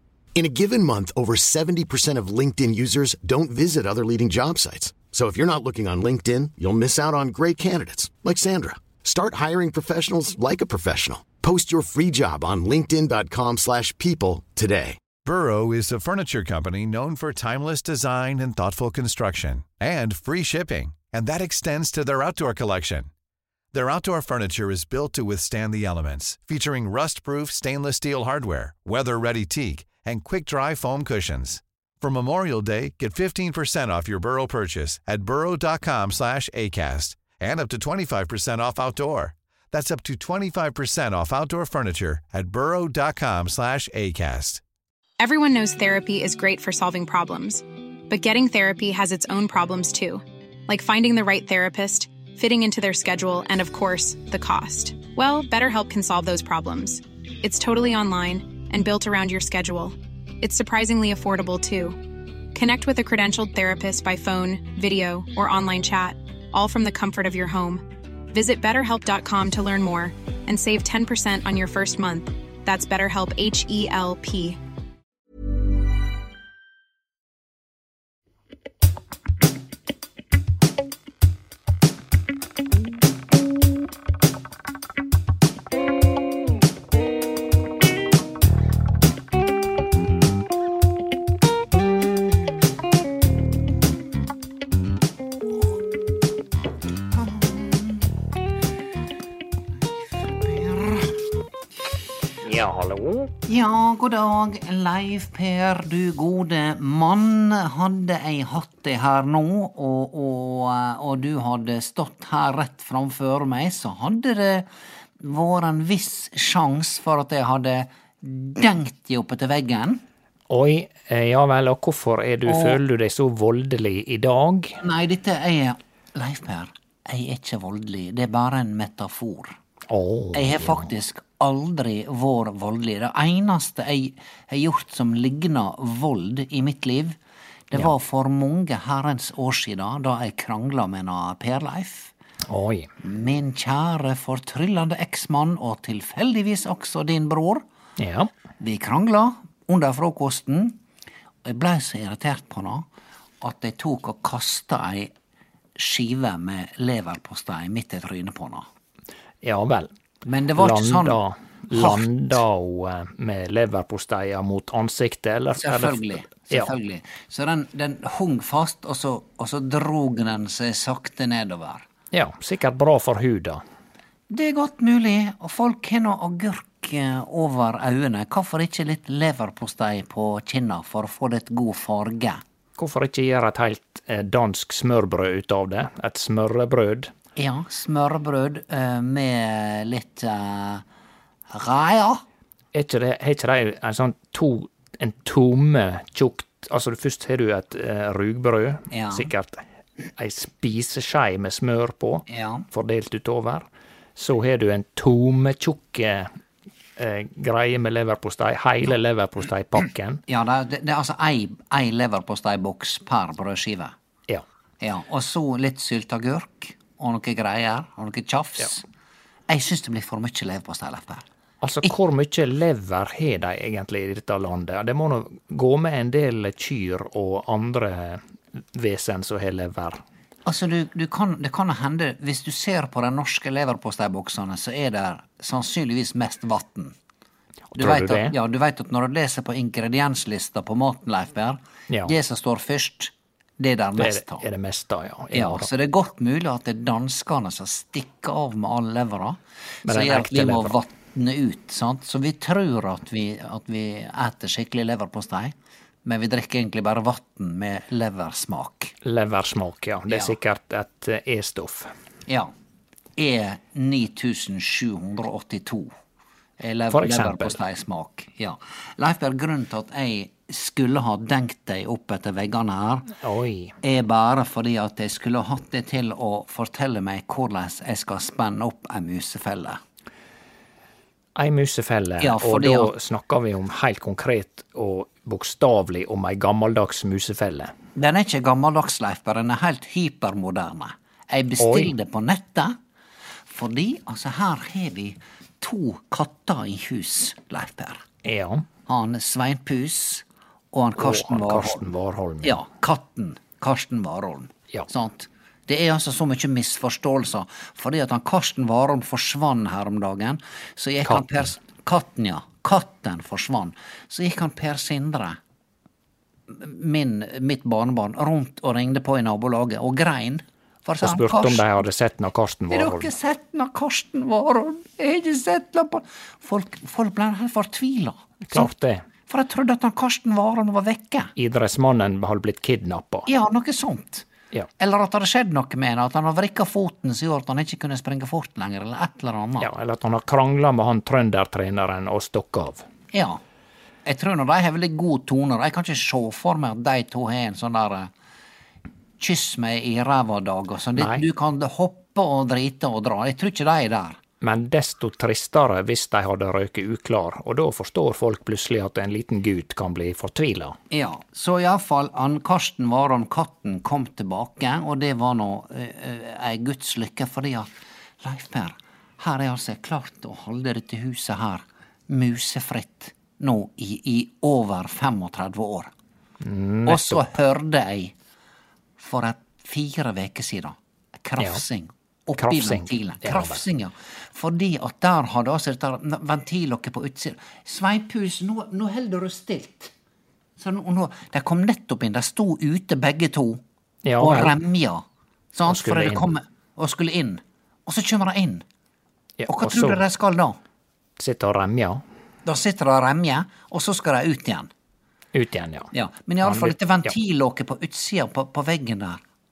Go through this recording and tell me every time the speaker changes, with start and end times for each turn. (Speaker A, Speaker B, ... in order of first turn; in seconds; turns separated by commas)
Speaker A: 0.3-15.0, Speaker B: 15.2-23.1, Speaker B: 23.7-44.6, Speaker C: 45.2-62.0, Speaker C: 62.5-74.6, Speaker D: 97.1-98.1, Speaker D: 100.1-101.3, Speaker E: 102.4-103.3, Speaker D: 103.5-114.7, Speaker D: 115.2-120.0, Speaker E: 120.5-124.8, Speaker D: 122.5-122.8, Speaker D: 124.8-129.6, Speaker E: 129.9-130.9, Speaker D: 130.3-137.2, Speaker D: 137.7-142.1, Speaker E: 142.5-142.9, Speaker D: 143.0-147.6, Speaker E: 148.0-148.3, Speaker D: 148.6-150.8, Speaker D: 151.4-152.8, Speaker D: 153.4-155.1, Speaker D: 155.8-158.7, Speaker E: 159.4-159.9, Speaker D: 160.2-161.2, Speaker E: 160.6-166.7, Speaker D: 161.7-162.2, Speaker D: 165.5-171.8, Speaker E: 172.1-173.6, Speaker D: 174.3-182.4, Speaker E: 182.8-187.1, Speaker D: 187.3-190.8, Speaker D: 191.5-192.2, Speaker E: 192.7-199.6, Speaker D: 198.9-199.3, Speaker E: 200.2-206.3, Speaker D: 202.3-202.7, Speaker E: 207.0-210.2, Speaker D: 210.3-213.9, Speaker D: 214.8-218.8, Speaker D: 219.5-221.2, Speaker E: 221.6-230.0, Speaker D: 230.4-236.9, Speaker E: 237.7-238.3, Speaker D: 237.7-244.4, Speaker E: 244.0-245.7, Speaker D: 245.3-258.9, Speaker E: 249.8-250.8, Speaker E: 259.0-261.9, Speaker D: 260.1-260.4, Speaker D: 262.3-262.5, Speaker D: 263.2-265.9, Speaker D: 266.6-273.1, Speaker E: 266.9-267.6, Speaker E: 273.1-273.8, Speaker D: 273.8-279.8, Speaker E: 281.4-287.7, Speaker D: 282.2-282.9, Speaker D: 287.9-292.8, Speaker E: 291.6-291.9, Speaker D: 293.5-298.0, Speaker E: 298.2-298.7, Speaker D: 298.9-301.9, Speaker E: 301.0-302.6, Speaker D: 302.4-315.4, Speaker E: 311.0-311.5, Speaker D: 316.5-321.8, Speaker E: 321.0-323.1, Speaker D: 322.7-328.7, Speaker E: 328.5-329.0, Speaker D: 329.3-331.3, Speaker E: 331.4-333.3, Speaker D: 333.3-339.7, Speaker E: 339.6-342.9, Speaker D: 343.1-343.4, Speaker D: 344.0-348.1, Speaker D: 349.2-354.2, Speaker E: 350.9-351.2, Speaker E: 354.4-360.8, Speaker D: 360.9-367.7, Speaker D: 368.2-375.9, Speaker E: 376.4-377.2, Speaker D: 376.9-378.1, Speaker D: 379.0-389.9, Speaker E: 382.4-383.6, Speaker D: 390.6-393.6, Speaker E: 394.0-394.5, Speaker D: 394.2-398.6, Speaker E: 395.7-396.3, Speaker E: 399.4-400.0, Speaker D: 399.4-400.6, Speaker E: 401.2-402.0, Speaker D: 402.4-404.7, Speaker E: 405.3-405.9, Speaker D: 405.9-409.2, Speaker E: 406.4-407.1